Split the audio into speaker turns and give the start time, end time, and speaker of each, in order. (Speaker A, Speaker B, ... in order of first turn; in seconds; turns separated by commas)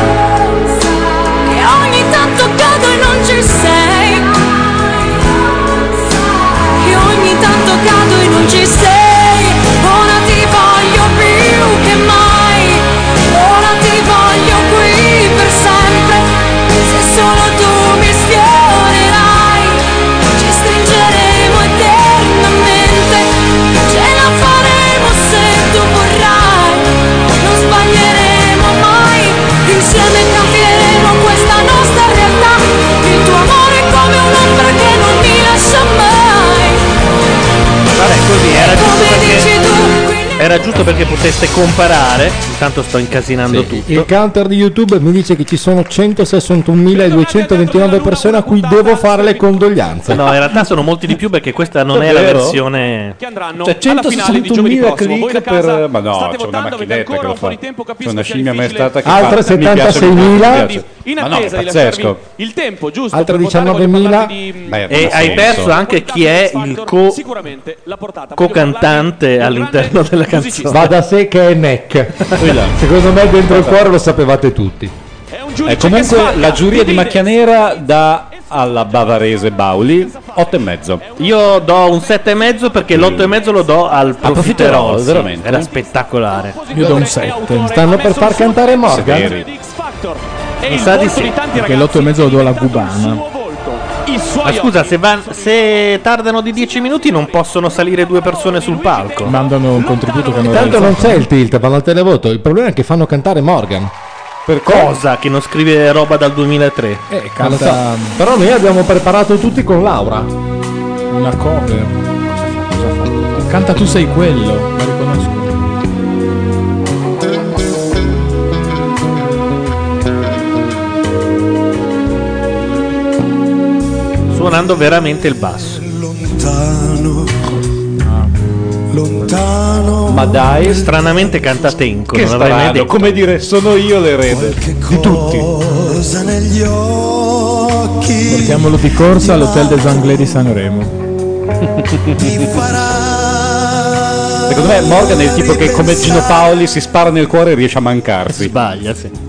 Speaker A: 1.3-36.9, Speaker B: 38.0-39.5, Speaker A: 38.5-40.8, Speaker B: 40.4-44.1, Speaker C: 43.5-43.8, Speaker D: 43.5-50.3, Speaker E: 46.9-49.6, Speaker B: 50.1-53.2, Speaker C: 51.9-52.6, Speaker E: 53.2-70.9, Speaker C: 53.6-62.2, Speaker D: 59.0-60.7, Speaker D: 63.1-64.3, Speaker C: 64.6-65.8, Speaker B: 64.9-67.2, Speaker B: 68.3-70.9, Speaker D: 70.7-74.9, Speaker C: 72.4-72.8, Speaker C: 73.5-73.8, Speaker E: 75.3-77.7, Speaker C: 75.7-81.0, Speaker E: 80.0-80.5, Speaker E: 81.0-84.4, Speaker B: 81.2-86.6, Speaker C: 82.9-83.3, Speaker C: 84.2-85.7, Speaker E: 85.5-96.0, Speaker F: 86.7-87.7, Speaker D: 87.7-89.3, Speaker C: 88.8-89.5, Speaker B: 90.7-91.3, Speaker F: 91.5-93.2, Speaker B: 94.4-99.3, Speaker E: 96.5-101.0, Speaker F: 99.2-101.2, Speaker D: 100.4-103.9, Speaker C: 104.5-105.0, Speaker B: 104.7-107.0, Speaker F: 107.1-108.2, Speaker D: 107.4-110.3, Speaker F: 111.1-115.5, Speaker B: 124.3-125.8, Speaker G: 125.8-127.4, Speaker F: 128.0-128.3, Speaker G: 128.9-131.7, Speaker C: 130.1-130.9, Speaker B: 130.7-133.2, Speaker C: 132.1-135.5, Speaker G: 134.2-140.4, Speaker F: 138.3-140.9, Speaker C: 141.8-142.5, Speaker G: 142.2-146.4, Speaker C: 144.5-148.5, Speaker B: 148.3-149.1